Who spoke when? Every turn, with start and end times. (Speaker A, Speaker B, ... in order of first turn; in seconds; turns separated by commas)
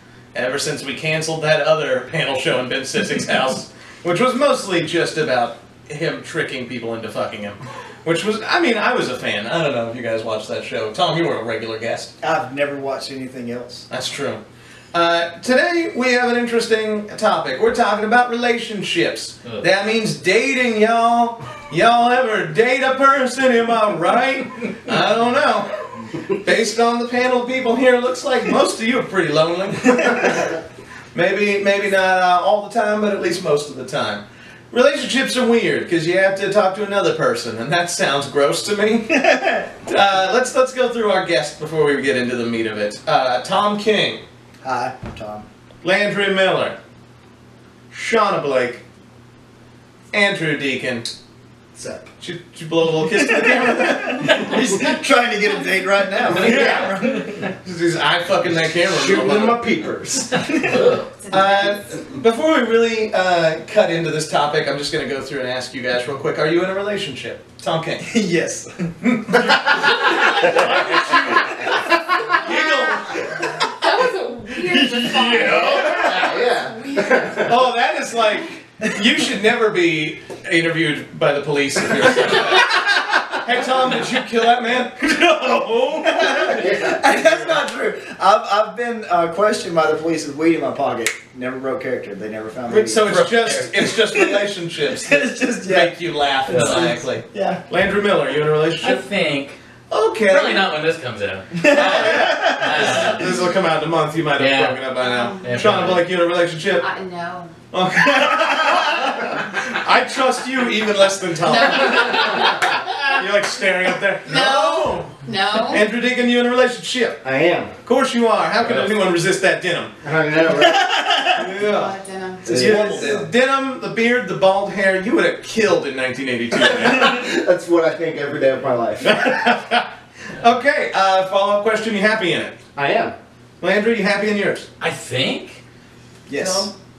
Speaker A: 0.3-12.1, Speaker B: 12.2-13.8, Speaker A: 13.9-14.4, Speaker A: 14.9-30.6, Speaker A: 31.1-44.2, Speaker B: 39.1-39.7, Speaker B: 44.6-45.5, Speaker A: 45.8-46.8, Speaker A: 47.9-48.8, Speaker A: 50.1-51.1, Speaker C: 51.8-52.1, Speaker A: 52.2-54.8, Speaker B: 53.2-57.5, Speaker A: 56.3-59.7, Speaker C: 58.9-60.5, Speaker B: 60.4-60.9, Speaker D: 60.6-61.1, Speaker E: 61.2-61.6, Speaker A: 61.3-68.1, Speaker B: 68.0-68.9, Speaker A: 69.0-73.4, Speaker E: 70.0-70.6, Speaker B: 70.2-72.0, Speaker E: 72.2-72.9, Speaker E: 73.6-77.5, Speaker A: 74.7-76.1, Speaker B: 75.2-75.4, Speaker C: 75.4-77.5, Speaker A: 77.4-87.6, Speaker B: 86.0-97.6, Speaker C: 86.6-86.9, Speaker A: 92.7-99.0, Speaker D: 93.1-93.7, Speaker D: 96.5-96.9, Speaker D: 98.8-99.6, Speaker A: 99.9-100.7, Speaker D: 100.2-103.3, Speaker B: 101.5-103.2, Speaker A: 101.6-106.9, Speaker D: 104.3-104.8, Speaker E: 105.0-105.8, Speaker D: 105.4-106.1, Speaker E: 106.8-107.5, Speaker A: 107.7-117.2, Speaker E: 111.4-113.2, Speaker E: 114.2-115.8, Speaker C: 117.2-117.7, Speaker A: 117.8-119.9, Speaker C: 120.0-120.9, Speaker B: 120.6-121.4, Speaker A: 121.3-121.9, Speaker E: 121.4-123.1, Speaker C: 122.5-123.2, Speaker A: 122.5-127.2, Speaker C: 126.6-129.4, Speaker A: 129.0-132.6, Speaker C: 132.8-133.1, Speaker A: 133.6-134.7, Speaker D: 134.8-135.6, Speaker B: 136.3-136.7, Speaker A: 136.3-136.7